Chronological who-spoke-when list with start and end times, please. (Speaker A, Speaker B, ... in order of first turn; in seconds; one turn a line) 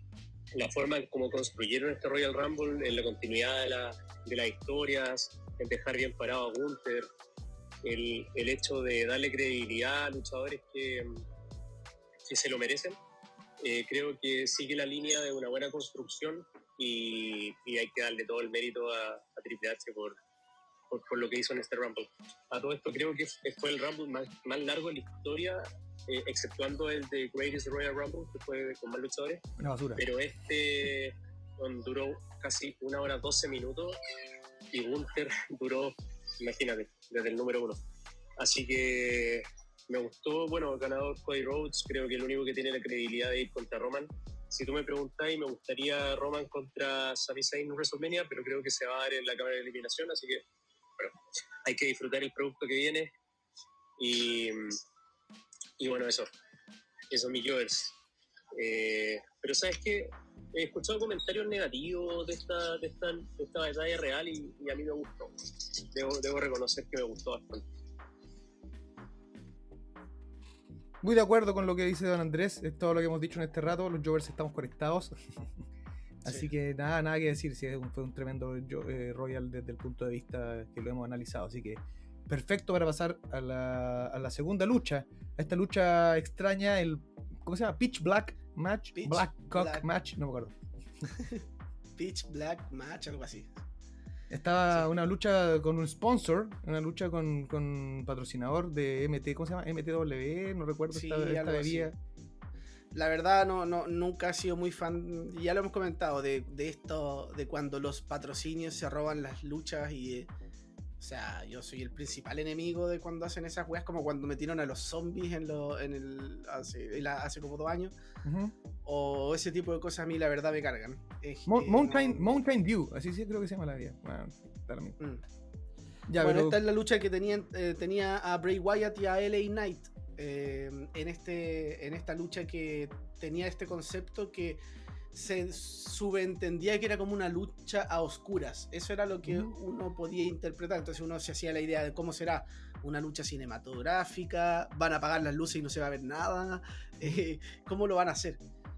Speaker A: 0.5-7.1
Speaker A: 7.8-11.2
Speaker A: 12.3-13.0
Speaker A: 13.6-20.1
Speaker A: 20.9-29.4
Speaker B: 29.6-30.0
Speaker A: 30.0-34.0
Speaker A: 34.7-37.8
Speaker A: 38.4-50.4
Speaker A: 51.0-53.1
Speaker A: 54.0-54.8
Speaker A: 55.8-56.3
Speaker A: 57.1-57.9
Speaker A: 58.5-67.6
Speaker B: 71.0-75.2
Speaker B: 76.2-90.5
Speaker C: 88.9-89.8
Speaker C: 91.2-91.4
Speaker C: 92.0-93.5
Speaker B: 94.3-102.0
Speaker C: 100.9-101.9
Speaker C: 102.9-110.3
Speaker C: 111.0-117.9
Speaker B: 118.2-118.5
Speaker C: 118.8-122.4
Speaker B: 121.5-125.0
Speaker B: 126.1-126.6
Speaker C: 126.2-134.6
Speaker C: 135.1-148.4